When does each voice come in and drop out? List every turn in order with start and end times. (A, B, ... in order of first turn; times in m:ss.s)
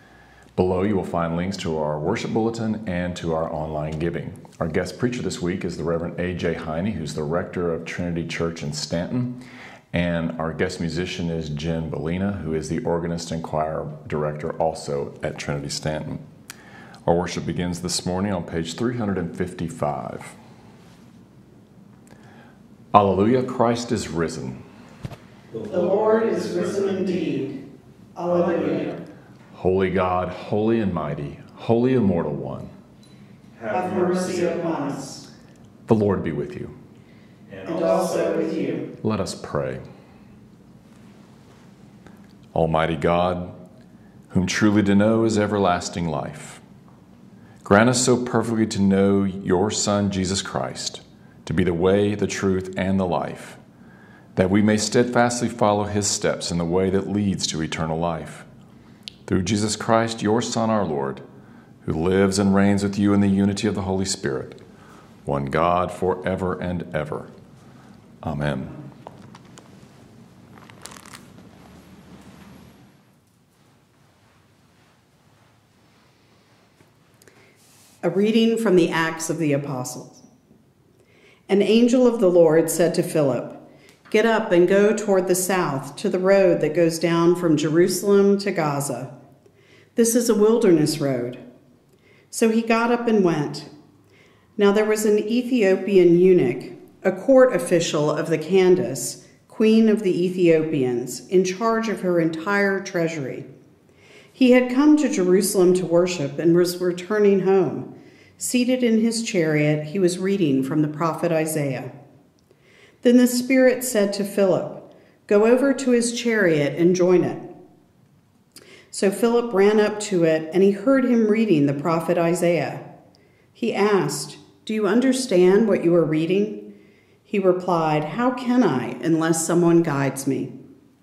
0:00.6-0:16.2 A
0:17.0-0:20.3 A
0:22.9-0:24.6 A
0:25.5-0:27.4 B
0:25.7-0:27.6 C
0:28.2-0:29.0 C
0:28.2-0:28.9 B
0:29.5-0:32.7 A
0:33.5-0:35.0 B
0:33.7-0:35.2 C
0:35.9-0:36.7 A
0:37.5-0:38.6 B
0:37.6-0:38.9 C
0:39.0-0:39.8 A
0:42.5-0:43.5 A
0:44.3-0:46.6 A
0:47.6-0:53.6 A
0:54.4-0:58.5 A
0:59.3-1:01.2 A
1:01.8-1:04.6 A
1:05.2-1:07.3 A
1:08.2-1:08.8 A
1:18.0-1:20.2 C
1:21.5-1:29.1 C
1:29.9-1:31.4 C
1:32.3-1:33.7 C
1:34.6-1:43.5 C
1:44.3-1:51.9 C
1:53.0-1:57.5 C
1:58.9-2:02.8 C
2:03.5-2:06.6 C
2:07.2-2:10.5 C